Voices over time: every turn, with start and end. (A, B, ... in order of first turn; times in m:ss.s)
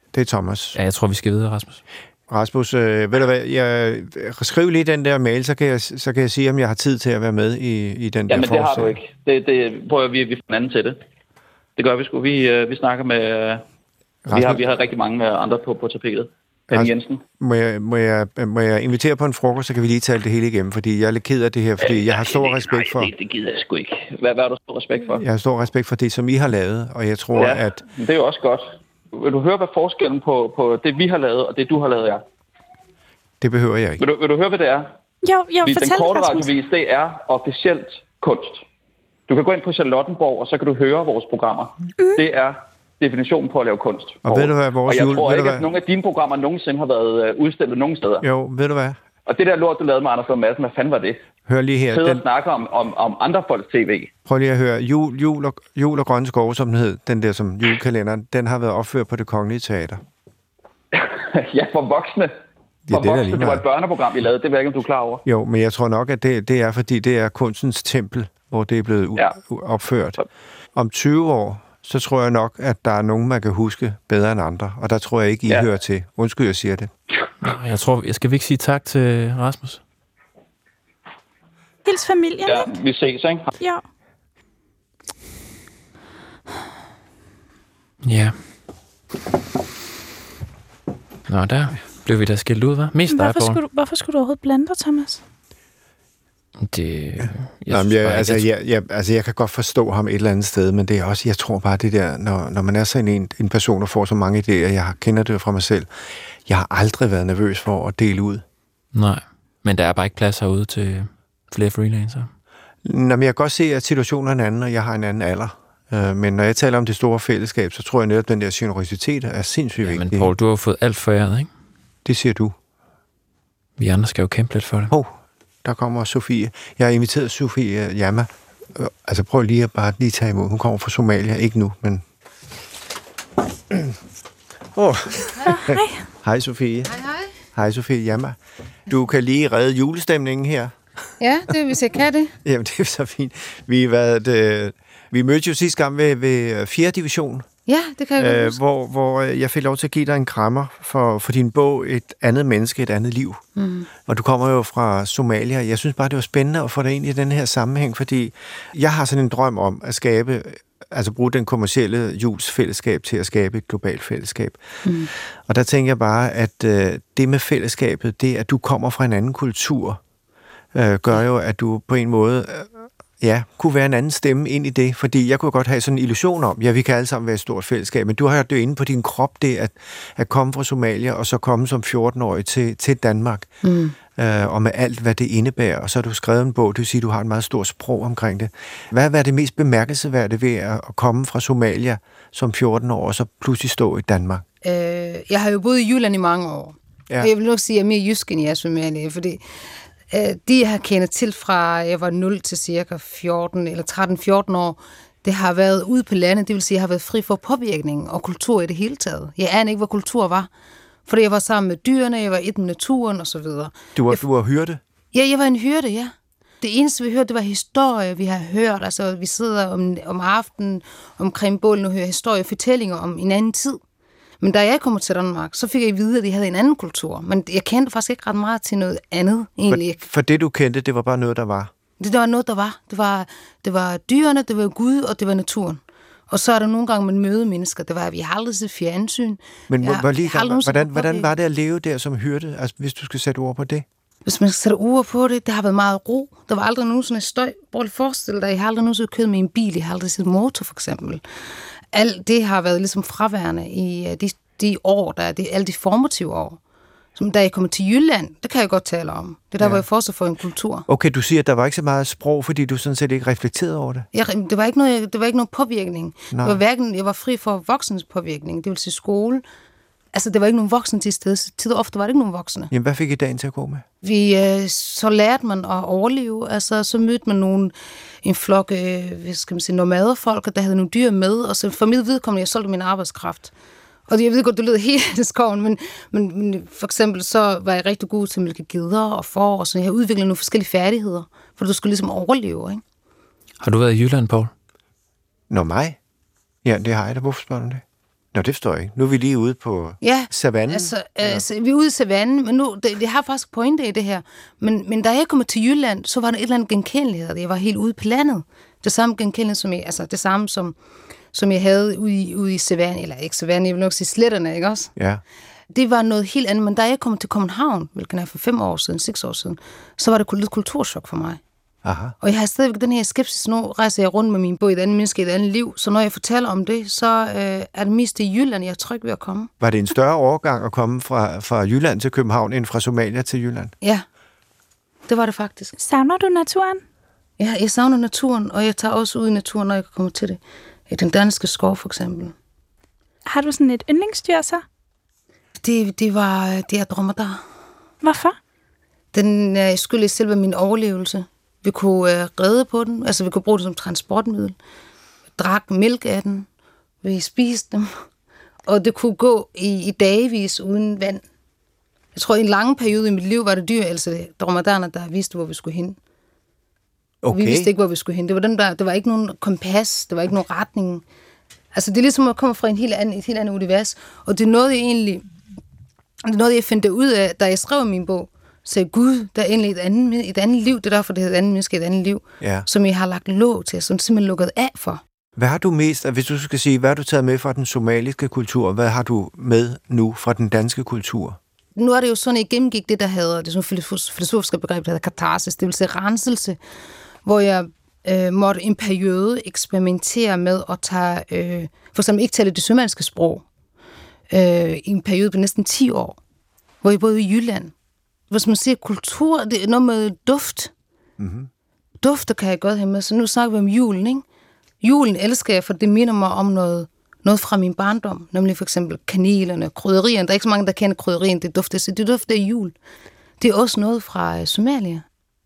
0:00.1-0:00.8 A
0:00.7-0:01.8 B
0:02.3-0:09.0 A
0:08.3-0:11.0 C
0:11.8-0:13.6 C
0:14.2-0:14.6 A
0:14.3-0:17.2 C
0:16.7-0:23.1 A
0:21.8-0:25.2 C
0:25.1-0:27.8 A
0:27.4-0:32.2 C
0:33.4-0:34.0 A
0:34.0-0:34.9 C
0:35.2-0:36.5 D
0:35.6-0:38.6 C
0:39.3-0:48.2 C
0:44.2-0:45.7 A
0:48.2-0:49.0 A
0:49.2-0:51.2 C
0:51.5-0:52.2 A
0:51.9-0:54.1 C
0:54.2-1:00.0 A
1:00.9-1:02.3 C
1:02.9-1:03.6 A
1:02.9-1:05.2 C
1:05.2-1:10.2 A
1:10.7-1:16.9 A
1:17.4-1:19.8 B
1:21.8-1:22.7 D
1:22.4-1:23.5 C
1:28.0-1:28.4 B
1:31.3-1:33.6 B
1:33.1-1:35.2 D
1:36.6-1:38.4 B
1:37.2-1:45.9 A
1:46.4-1:48.4 A
1:48.9-1:52.3 B
1:52.8-2:00.3 A
1:59.8-2:01.5 B
2:02.0-2:02.5 A
2:03.8-2:04.9 B
2:05.6-2:12.0 A
2:13.7-2:14.0 A
2:14.7-2:17.0 A
2:15.4-2:16.0 D
2:16.9-2:17.2 E
2:17.5-2:18.4 A
2:18.9-2:20.8 A
2:21.2-2:22.3 E
2:22.4-2:27.4 A
2:27.7-2:28.6 E
2:28.2-2:33.4 A
2:33.6-2:33.9 E
2:34.0-2:44.6 A
2:44.8-2:45.1 E
2:45.2-2:50.0 A
2:50.7-3:03.5 A
3:03.6-3:04.0 E
3:04.1-3:14.4 A
3:14.6-3:19.4 E
3:20.1-3:30.5 E
3:31.0-3:34.2 E
3:34.0-3:34.8 A
3:35.1-3:43.8 E
3:44.4-3:50.0 E
3:49.7-3:51.7 A
3:52.0-4:01.3 E
3:59.7-4:03.8 A
4:04.2-4:11.2 E
4:11.9-4:16.6 E
4:17.2-4:20.9 E
4:20.9-4:24.1 A
4:24.1-4:29.4 E
4:26.3-4:26.6 A
4:30.1-4:32.7 E
4:32.7-4:33.8 A
4:34.0-4:37.7 E
4:38.2-4:43.5 E
4:44.1-4:52.8 E
4:53.6-4:54.5 B
4:55.5-4:56.0 A
4:56.6-4:57.8 A
4:58.3-5:01.4 A
5:00.0-5:10.7 E
5:11.3-5:14.9 E
5:15.0-5:15.2 A
5:15.7-5:21.4 E
5:21.8-5:22.1 A
5:22.2-5:29.5 E
5:29.6-5:33.7 A
5:35.1-5:35.7 E
5:35.8-5:36.8 D
5:37.4-5:42.3 E
5:43.2-5:44.6 D
5:45.6-5:47.4 E
5:48.0-5:48.4 D
5:49.1-5:54.6 E
5:55.4-5:56.5 E
5:57.0-5:57.9 E
5:58.7-6:01.2 E
6:02.1-6:06.0 E
6:07.2-6:07.7 A
6:07.3-6:11.0 E
6:11.7-6:15.2 E
6:16.2-6:25.0 E
6:22.4-6:22.7 A
6:25.4-6:31.4 A
6:31.8-6:36.6 E
6:37.2-6:43.4 E
6:44.3-6:46.2 E
6:46.8-6:47.7 E
6:48.3-6:50.7 E
6:51.2-6:51.5 A
6:52.0-6:54.2 E
6:54.8-7:02.7 E
7:03.4-7:05.0 E